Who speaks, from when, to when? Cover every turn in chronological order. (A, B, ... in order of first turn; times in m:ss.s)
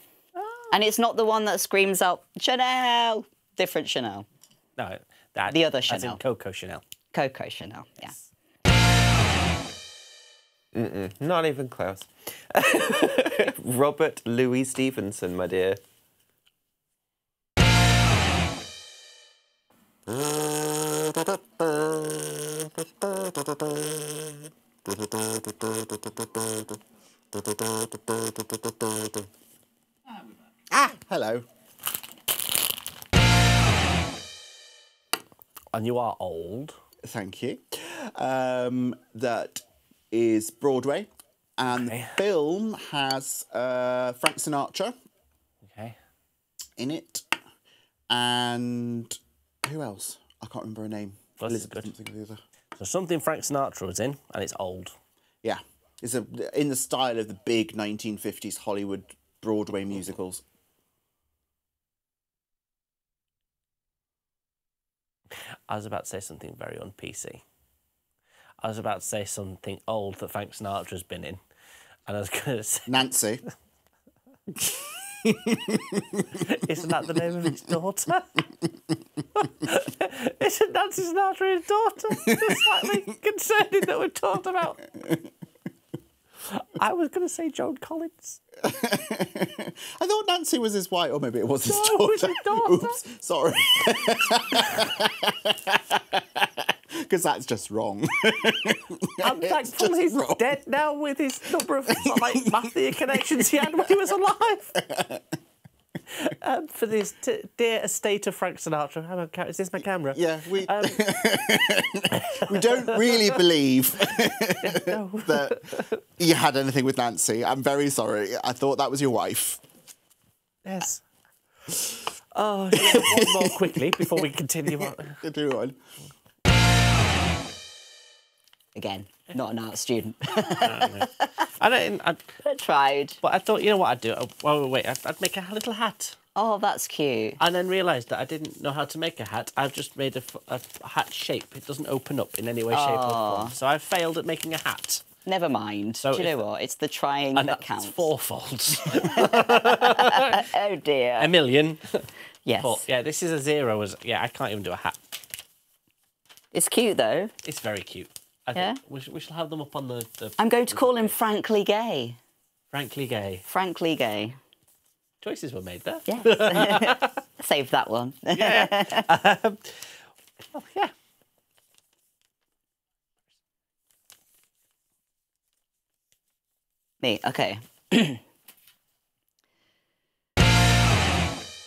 0:00.4-0:00.7 A
0:00.7-0:04.3 B
0:04.8-0:06.8 A
0:05.5-0:06.2 B
0:07.1-0:08.1 B
0:10.7-0:15.8 C
0:20.1-0:23.9 C
0:25.0-0:26.2 C
0:27.9-0:28.3 C
0:30.7-0:31.4 D
0:35.7-0:36.8 A
0:37.0-0:44.9 D
0:41.7-0:42.2 A
0:45.6-0:46.0 A
0:46.8-0:47.3 D
0:48.1-0:52.4 D
0:51.4-0:51.9 A
0:52.8-0:54.9 A
0:55.4-1:00.4 D
1:05.7-1:07.4 A
1:08.6-1:11.4 A
1:12.1-1:13.0 A
1:12.9-1:13.4 D
1:14.6-1:16.2 D
1:16.4-1:18.4 A
1:19.4-1:24.8 A
1:22.2-1:22.6 D
1:25.0-1:25.3 D
1:26.5-1:28.4 A
1:28.6-1:40.6 D
1:31.6-1:33.0 A
1:39.2-1:44.8 A
1:41.9-1:44.1 D
1:44.8-1:45.4 D
1:46.1-1:51.0 A
1:50.1-1:59.6 D
1:52.3-1:53.2 A
1:54.6-1:56.0 A
2:00.6-2:01.0 A
2:02.3-2:05.2 A
2:02.7-2:03.8 D
2:04.8-2:05.8 D
2:08.7-2:11.3 B
2:10.5-2:12.3 A
2:12.4-2:13.2 B
2:13.2-2:16.2 A
2:16.3-2:17.4 B
2:17.4-2:25.0 A
2:22.7-2:23.5 B
2:25.2-2:28.0 B
2:26.0-2:26.4 A
2:27.3-2:30.4 A
2:28.8-2:31.3 B
2:31.2-2:32.1 A
2:32.4-2:32.8 B
2:32.6-2:35.1 A
2:36.5-2:37.3 B
2:37.4-2:41.2 A
2:40.4-2:42.2 B
2:42.7-2:43.4 A
2:43.5-2:44.4 B
2:45.2-2:47.1 A
2:46.1-2:49.1 B
2:48.3-2:49.9 A
2:50.5-2:50.9 A
2:57.0-2:58.2 B